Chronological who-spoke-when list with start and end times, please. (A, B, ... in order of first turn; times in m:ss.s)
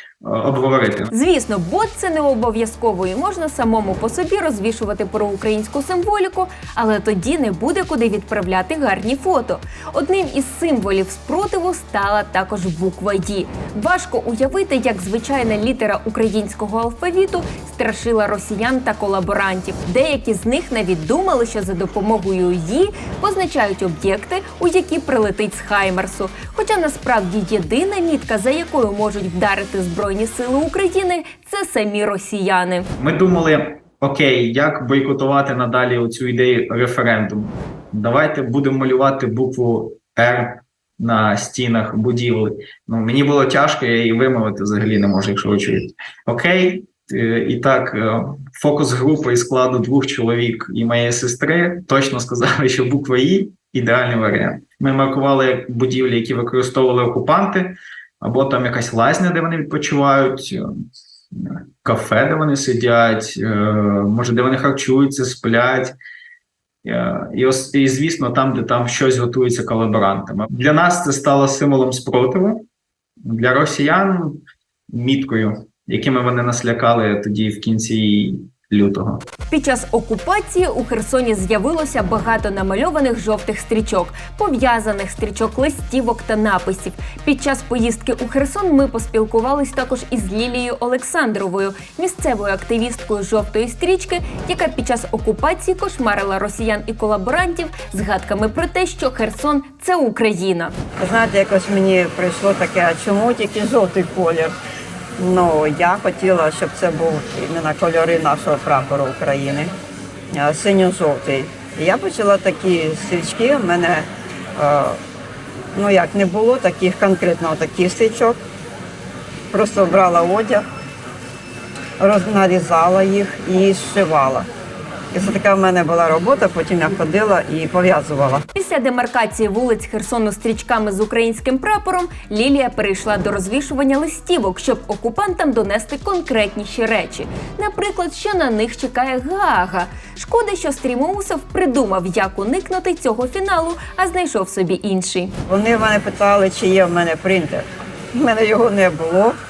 0:00.2-0:01.1 A
0:01.1-0:32.9 B
0:33.0-1:00.6 A
1:01.3-1:06.0 A
1:06.8-1:12.7 A
1:13.2-1:19.3 A
1:19.5-1:40.7 B
1:41.0-1:44.5 C
1:45.2-1:49.7 C
1:50.3-1:54.1 C
1:54.6-1:55.0 C
1:55.8-1:58.4 C
1:59.5-2:00.6 C
2:02.0-2:04.5 C
2:05.1-2:08.4 C
2:08.6-2:25.3 B
2:25.5-2:29.4 C